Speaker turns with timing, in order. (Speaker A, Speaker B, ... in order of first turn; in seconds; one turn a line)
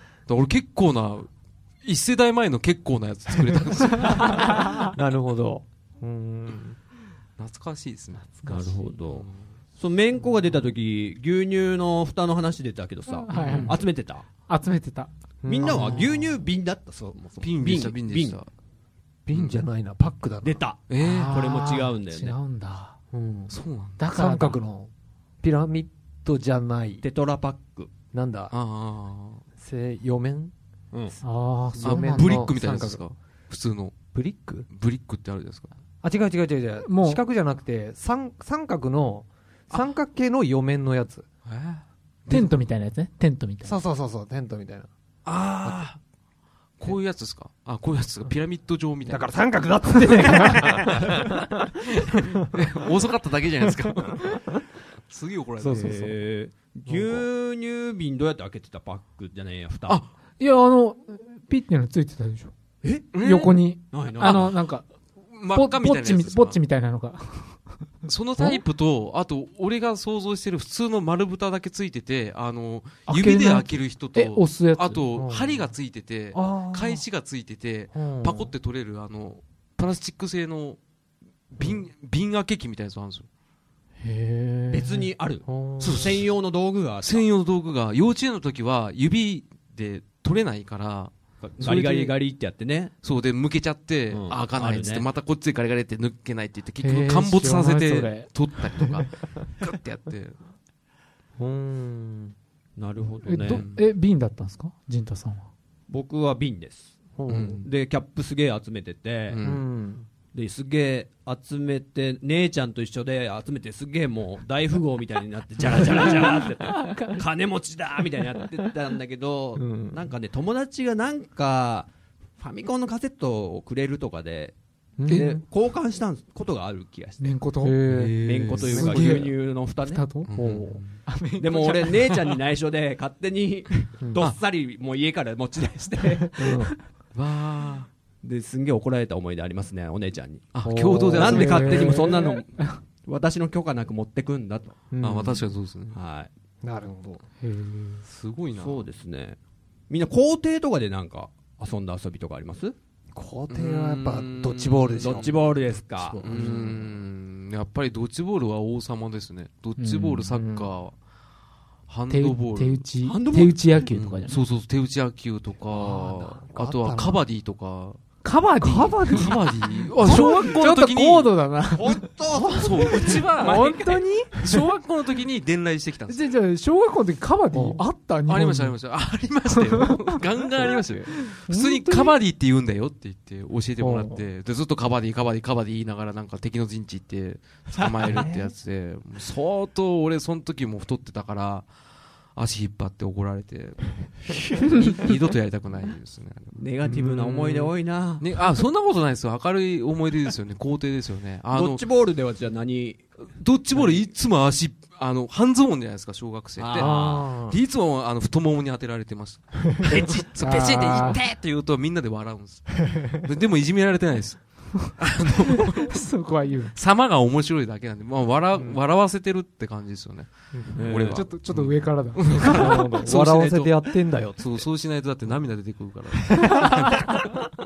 Speaker A: 0.3-1.3
Speaker A: 1.8-4.7
Speaker B: 4.1-4.8
Speaker C: 4.6-6.8
Speaker A: 7.4-8.5
Speaker B: 8.4-8.9
Speaker D: 8.5-9.3
Speaker A: 9.1-9.4
Speaker D: 9.8-14.2
Speaker B: 13.1-13.8
Speaker A: 13.3-13.8
Speaker B: 14.5-15.1
Speaker C: 15.4-16.4
Speaker D: 15.5-18.4
Speaker A: 17.4-18.5
Speaker C: 19.3-20.6
Speaker A: 19.3-19.6
Speaker D: 20.4-22.4
Speaker A: 20.9-21.9
Speaker B: 21.0-23.0
Speaker C: 23.1-23.5
Speaker A: 23.5-24.0
Speaker B: 24.0-24.6
Speaker C: 24.1-24.9
Speaker C: 25.4-27.0
Speaker D: 27.0-27.9
Speaker C: 28.1-28.5
Speaker A: 28.5-29.4
Speaker C: 29.6-30.5
Speaker B: 31.2-32.5
Speaker C: 31.8-33.0
Speaker A: 31.8-34.0
Speaker C: 34.1-34.7
Speaker A: 34.7-35.7
Speaker C: 36.0-41.3
Speaker B: 36.9-37.2
Speaker A: 41.5-42.5
Speaker B: 42.3-43.8
Speaker C: 43.6-44.9
Speaker A: 45.2-46.0
Speaker A: 46.8-49.3
Speaker C: 49.1-52.8
Speaker B: 50.0-50.7
Speaker A: 50.6-51.3
Speaker A: 52.0-54.5
Speaker C: 53.6-54.4
Speaker A: 55.1-56.1
Speaker C: 55.6-56.1
Speaker D: 55.7-60.0
Speaker C: 56.9-57.2
Speaker B: 60.4-62.5
Speaker D: 62.8-63.1
Speaker A: 63.1-63.6
Speaker B: 63.1-64.9
Speaker D: 63.9-64.5
Speaker A: 64.2-64.6
Speaker A: 65.3-66.6
Speaker B: 65.5-67.6
Speaker A: 68.1-80.8
Speaker B: 73.1-75.0
Speaker C: 75.2-75.7
Speaker C: 76.3-77.0
Speaker C: 77.9-78.5
Speaker A: 81.5-83.3
Speaker B: 84.0-85.1
Speaker D: 84.7-87.3
Speaker C: 85.5-86.2
Speaker A: 85.8-86.2
Speaker A: 87.0-92.1
Speaker D: 91.4-92.9
Speaker A: 93.0-100.4
Speaker D: 94.1-95.1
Speaker B: 96.8-98.8
Speaker C: 101.4-102.4
Speaker D: 102.8-103.6
Speaker B: 103.2-105.5
Speaker A: 103.5-103.8
Speaker D: 105.9-109.4
Speaker C: 107.2-107.7
Speaker A: 107.3-107.6
Speaker A: 109.3-109.6
Speaker C: 109.4-110.1
Speaker D: 110.3-124.5
Speaker C: 116.0-116.3
Speaker B: 116.2-117.2
Speaker C: 119.6-120.1
Speaker C: 125.0-125.4
Speaker D: 125.1-127.4
Speaker B: 127.2-127.8
Speaker C: 127.6-129.2
Speaker A: 127.9-129.3
Speaker D: 128.2-130.1
Speaker B: 128.8-129.3
Speaker B: 129.9-130.3
Speaker A: 130.3-131.0
Speaker C: 130.4-130.8
Speaker B: 131.1-132.3
Speaker D: 131.4-136.6
Speaker C: 136.4-136.7
Speaker A: 137.2-137.9
Speaker D: 138.2-140.5
Speaker A: 140.5-142.0
Speaker C: 140.6-142.0
Speaker D: 141.1-144.8
Speaker B: 141.2-142.8
Speaker C: 144.9-145.5
Speaker A: 145.0-146.0
Speaker D: 145.9-146.3
Speaker C: 146.6-147.2
Speaker B: 147.4-148.0
Speaker A: 148.1-148.8
Speaker D: 148.5-149.4
Speaker D: 149.9-152.8
Speaker C: 153.1-155.4
Speaker A: 153.5-155.4
Speaker D: 155.0-156.7
Speaker C: 156.1-156.9
Speaker A: 156.2-161.0
Speaker B: 159.8-160.3
Speaker C: 160.3-160.7
Speaker A: 161.9-162.8
Speaker B: 162.1-164.4
Speaker D: 163.0-163.7
Speaker A: 163.9-168.0
Speaker C: 165.7-167.2
Speaker B: 168.2-169.3
Speaker C: 168.6-170.2
Speaker A: 169.1-171.3
Speaker B: 170.0-172.0
Speaker D: 171.8-174.0
Speaker A: 172.3-176.3
Speaker C: 172.4-172.8
Speaker B: 173.0-174.6
Speaker B: 176.1-178.8
Speaker C: 177.5-177.8
Speaker A: 178.3-191.7
Speaker B: 179.5-180.2
Speaker B: 181.1-182.2
Speaker C: 183.8-184.2
Speaker D: 187.8-188.2
Speaker C: 188.1-188.5
Speaker A: 192.3-201.8
Speaker D: 196.6-198.3
Speaker D: 201.5-203.1
Speaker A: 203.3-216.0
Speaker D: 203.7-204.0
Speaker D: 206.6-207.4
Speaker C: 206.8-207.6
Speaker D: 209.8-210.9
Speaker B: 210.4-211.2
Speaker B: 215.5-216.8
Speaker A: 216.8-223.8
Speaker C: 218.5-218.8
Speaker C: 220.5-221.1
Speaker D: 220.8-221.3
Speaker B: 221.0-222.9
Speaker C: 222.3-224.7
Speaker A: 224.4-227.2
Speaker C: 226.3-227.4